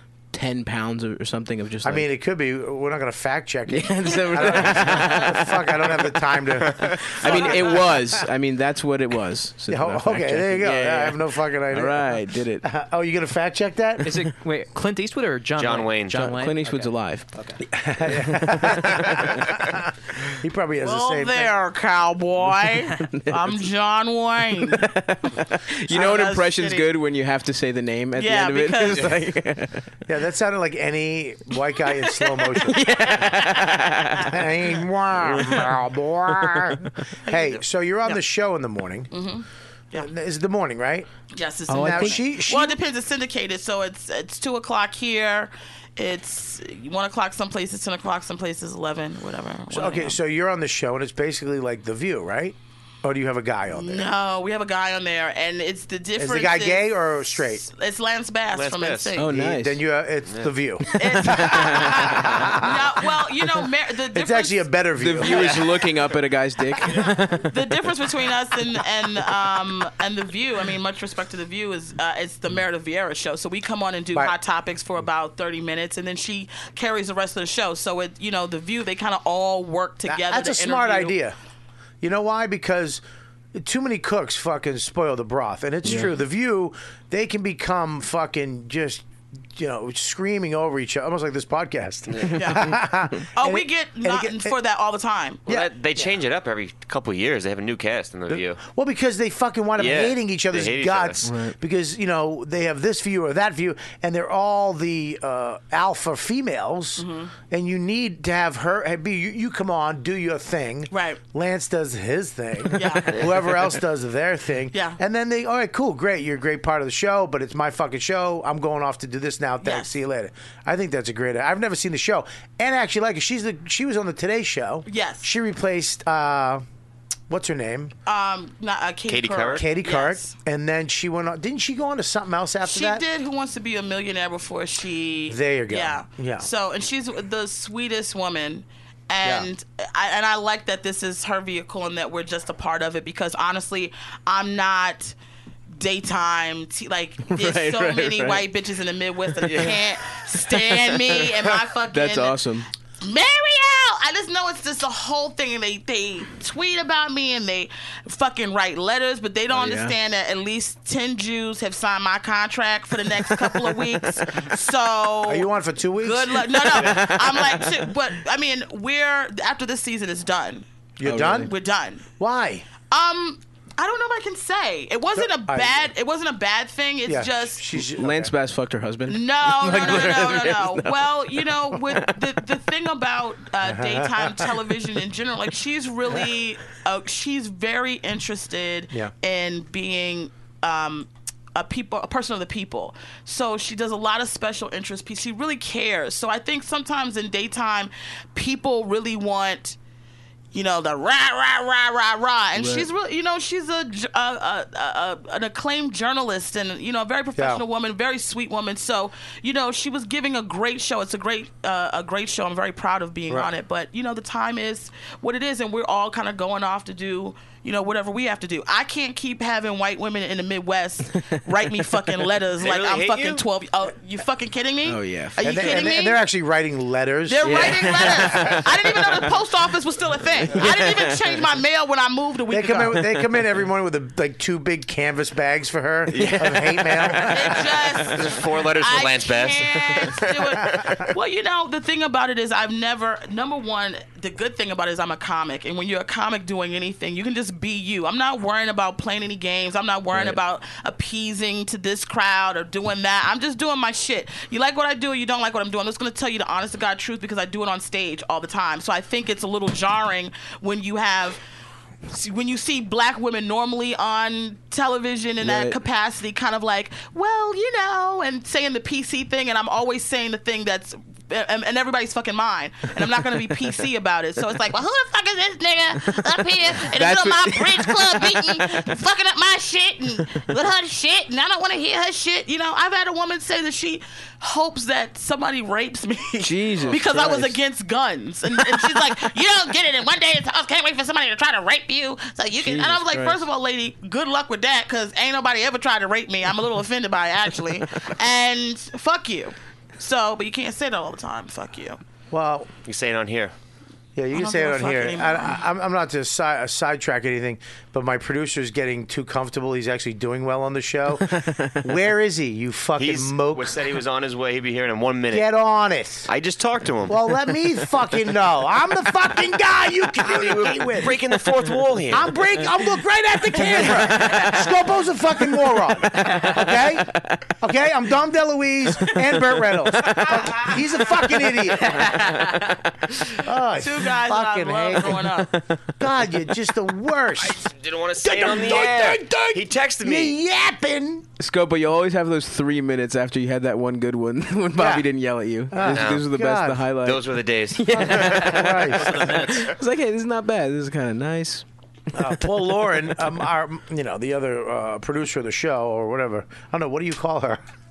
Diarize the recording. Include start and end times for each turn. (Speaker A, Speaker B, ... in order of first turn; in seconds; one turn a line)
Speaker A: 0.3-2.0
Speaker B: 1.8-8.2
Speaker A: 3.7-6.0
Speaker C: 6.8-7.2
Speaker A: 7.1-12.7
Speaker D: 7.3-7.7
Speaker B: 9.7-14.1
Speaker E: 14.0-17.6
Speaker C: 15.6-16.3
Speaker A: 16.1-17.3
Speaker B: 17.7-21.5
Speaker A: 18.0-19.4
Speaker D: 20.8-24.9
Speaker A: 23.0-23.6
Speaker A: 24.6-29.9
Speaker D: 25.9-26.9
Speaker D: 28.2-29.1
Speaker B: 30.1-32.9
Speaker D: 31.9-34.3
Speaker A: 32.7-34.4
Speaker B: 34.2-39.1
Speaker A: 35.2-35.7
Speaker D: 37.2-38.2
Speaker D: 39.1-40.1
Speaker B: 39.9-41.1
Speaker D: 41.3-50.2
Speaker A: 41.7-42.2
Speaker B: 41.7-42.8
Speaker B: 49.7-54.1
Speaker D: 53.7-59.3
Speaker B: 56.2-57.7
Speaker C: 58.5-59.1
Speaker A: 59.2-59.8
Speaker B: 59.3-62.8
Speaker C: 60.3-60.5
Speaker D: 61.0-64.7
Speaker A: 61.1-62.0
Speaker B: 64.1-65.7
Speaker A: 65.0-67.6
Speaker D: 65.2-65.6
Speaker D: 67.5-81.2
Speaker B: 80.1-81.3
Speaker B: 82.0-83.0
Speaker B: 83.5-94.5
Speaker A: 85.9-86.1
Speaker D: 92.3-92.8
Speaker D: 93.4-95.4
Speaker C: 95.5-98.6
Speaker B: 98.3-126.6
Speaker C: 99.8-101.3
Speaker A: 101.2-101.5
Speaker D: 107.0-107.3
Speaker D: 110.9-111.2
Speaker D: 112.7-113.2
Speaker D: 114.7-115.0
Speaker D: 119.6-120.0
Speaker D: 124.9-125.3
Speaker B: 127.3-127.9
Speaker D: 128.1-130.3
Speaker C: 129.1-129.7
Speaker B: 129.6-133.1
Speaker D: 132.7-145.2
Speaker B: 135.3-136.5
Speaker B: 139.2-139.5
Speaker D: 145.7-152.4
Speaker A: 147.3-148.5
Speaker A: 149.4-149.8
Speaker A: 150.4-151.3
Speaker A: 151.9-152.7
Speaker D: 153.0-165.5
Speaker A: 159.5-159.9
Speaker A: 163.5-164.5
Speaker B: 165.2-166.6
Speaker D: 166.0-170.7
Speaker A: 166.8-167.7
Speaker B: 171.0-171.5
Speaker A: 171.0-171.5
Speaker D: 171.2-172.0
Speaker B: 172.2-172.7
Speaker D: 172.9-177.6
Speaker B: 175.2-175.9
Speaker B: 177.1-178.3
Speaker A: 177.9-182.3
Speaker D: 179.1-199.8
Speaker B: 183.6-184.5
Speaker D: 200.5-226.2
Speaker A: 202.6-202.9
Speaker B: 207.4-207.6
Speaker A: 221.8-222.2
Speaker C: 222.6-223.4
Speaker A: 224.9-225.7
Speaker B: 225.4-228.6
Speaker D: 227.3-233.1
Speaker A: 227.4-229.4
Speaker A: 230.4-231.4
Speaker B: 232.5-237.8
Speaker A: 236.1-237.5
Speaker D: 237.3-261.4
Speaker C: 238.1-241.0
Speaker A: 250.1-250.4
Speaker D: 262.1-302.0
Speaker A: 265.4-265.8
Speaker A: 276.7-278.9
Speaker A: 286.4-287.6
Speaker A: 288.6-289.2
Speaker A: 292.6-293.4
Speaker B: 302.3-302.7
Speaker C: 302.9-303.5
Speaker B: 304.1-313.9
Speaker D: 304.3-305.6
Speaker A: 311.3-311.8
Speaker C: 313.0-315.5
Speaker B: 315.3-316.3
Speaker C: 316.3-317.2
Speaker B: 317.1-321.2
Speaker C: 320.2-322.3
Speaker B: 322.1-332.3
Speaker A: 323.6-324.7
Speaker A: 326.1-327.4
Speaker A: 329.0-330.8
Speaker A: 331.8-333.3
Speaker B: 333.4-335.2
Speaker D: 333.8-335.5
Speaker A: 335.1-335.8
Speaker B: 336.0-337.7
Speaker C: 337.4-340.4
Speaker B: 338.2-341.3
Speaker A: 341.4-351.6
Speaker B: 344.8-345.1
Speaker B: 345.7-346.9
Speaker C: 345.8-346.3
Speaker C: 347.0-349.7
Speaker B: 347.9-349.5
Speaker E: 349.2-349.4
Speaker B: 352.1-357.6
Speaker A: 352.2-352.4